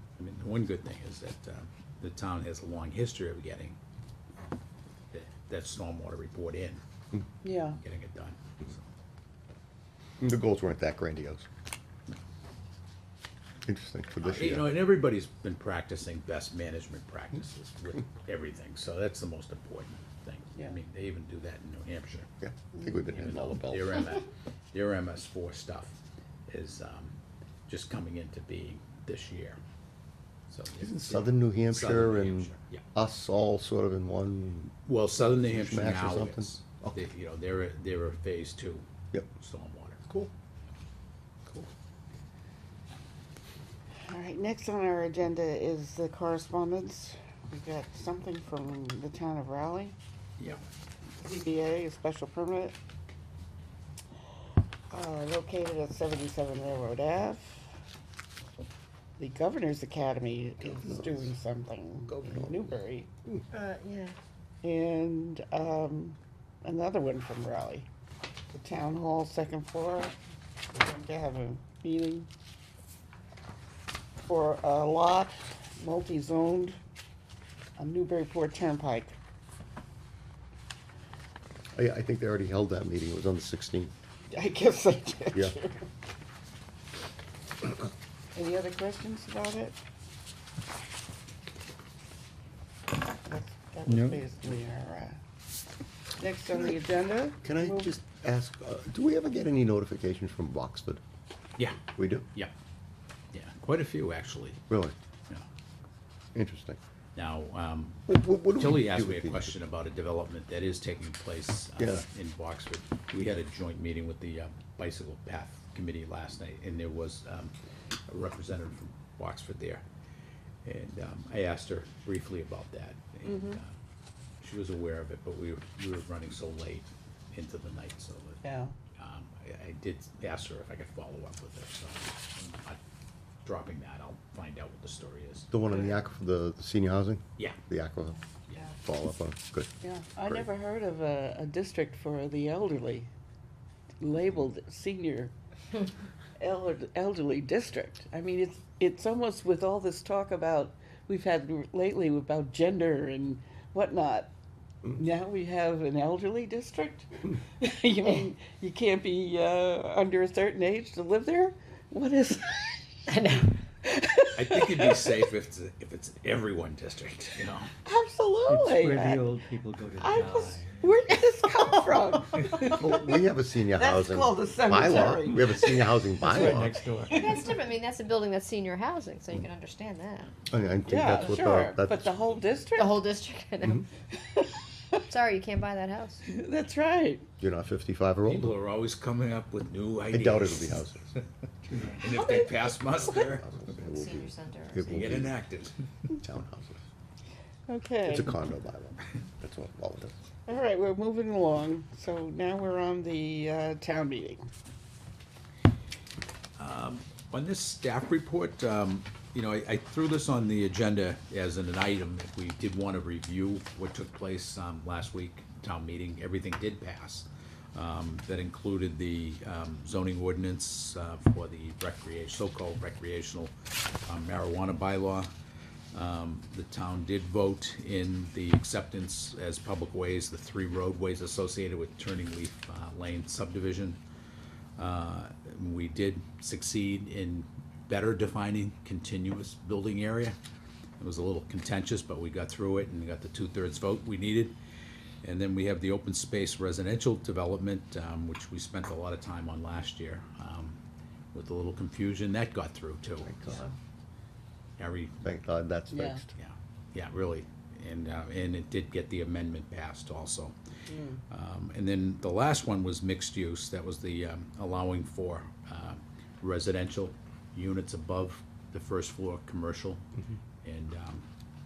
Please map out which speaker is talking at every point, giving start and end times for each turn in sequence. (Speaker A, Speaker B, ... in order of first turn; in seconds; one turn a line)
Speaker A: 0.2-3.8
Speaker A: 5.1-6.8
Speaker B: 7.4-7.8
Speaker A: 7.8-8.8
Speaker C: 10.2-11.5
Speaker C: 13.7-14.7
Speaker A: 14.2-22.3
Speaker C: 22.4-24.1
Speaker A: 23.1-27.1
Speaker A: 27.7-29.6
Speaker A: 30.5-32.8
Speaker C: 30.8-34.7
Speaker A: 34.9-38.8
Speaker C: 35.4-37.1
Speaker A: 39.4-40.1
Speaker B: 44.1-50.0
Speaker B: 51.2-52.8
Speaker B: 54.9-57.8
Speaker B: 59.2-63.1
Speaker C: 60.6-61.3
Speaker C: 62.1-62.7
Speaker D: 63.6-64.2
Speaker B: 64.6-67.9
Speaker B: 68.5-70.2
Speaker B: 70.7-72.3
Speaker B: 74.3-76.8
Speaker B: 77.8-79.2
Speaker C: 81.7-83.9
Speaker B: 84.3-85.9
Speaker B: 88.3-89.8
Speaker B: 93.2-95.2
Speaker E: 93.9-94.2
Speaker B: 96.2-97.9
Speaker C: 97.4-101.0
Speaker A: 101.6-102.5
Speaker C: 102.0-102.3
Speaker A: 103.3-104.6
Speaker C: 104.7-104.9
Speaker C: 106.3-106.8
Speaker A: 107.2-117.5
Speaker C: 108.1-109.5
Speaker C: 111.8-112.0
Speaker A: 118.1-119.8
Speaker A: 120.7-123.7
Speaker B: 123.3-123.6
Speaker A: 124.4-128.4
Speaker B: 128.4-128.8
Speaker A: 129.0-132.8
Speaker A: 133.4-135.5
Speaker C: 135.5-139.7
Speaker B: 139.8-143.1
Speaker B: 144.0-145.3
Speaker B: 146.4-154.3
Speaker B: 154.9-163.1
Speaker D: 163.1-163.6
Speaker B: 163.8-165.2
Speaker A: 164.3-167.7
Speaker B: 167.8-169.2
Speaker E: 168.5-170.8
Speaker B: 170.0-173.1
Speaker C: 172.7-176.8
Speaker B: 173.8-176.0
Speaker E: 176.2-177.5
Speaker B: 177.1-177.5
Speaker D: 177.2-180.3
Speaker C: 180.5-182.1
Speaker B: 180.9-183.2
Speaker D: 182.8-183.9
Speaker B: 184.1-185.0
Speaker D: 185.1-186.2
Speaker B: 186.3-187.3
Speaker C: 187.4-188.6
Speaker A: 188.3-191.2
Speaker C: 190.1-191.1
Speaker A: 191.9-193.5
Speaker C: 193.1-195.4
Speaker D: 193.8-195.1
Speaker A: 194.9-195.8
Speaker C: 196.2-196.8
Speaker B: 197.7-198.3
Speaker C: 198.1-200.2
Speaker B: 200.5-204.5
Speaker A: 206.6-223.5
Speaker A: 224.0-225.3
Speaker A: 225.9-234.0
Speaker A: 234.8-240.4
Speaker A: 241.0-244.6
Speaker A: 245.2-250.8
Speaker A: 251.3-253.4
Speaker C: 253.2-253.7
Speaker A: 254.8-255.2
Speaker C: 255.2-256.3
Speaker B: 255.9-256.2
Speaker A: 256.4-260.6
Speaker B: 260.9-261.2
Speaker A: 261.3-270.1
Speaker A: 270.6-271.2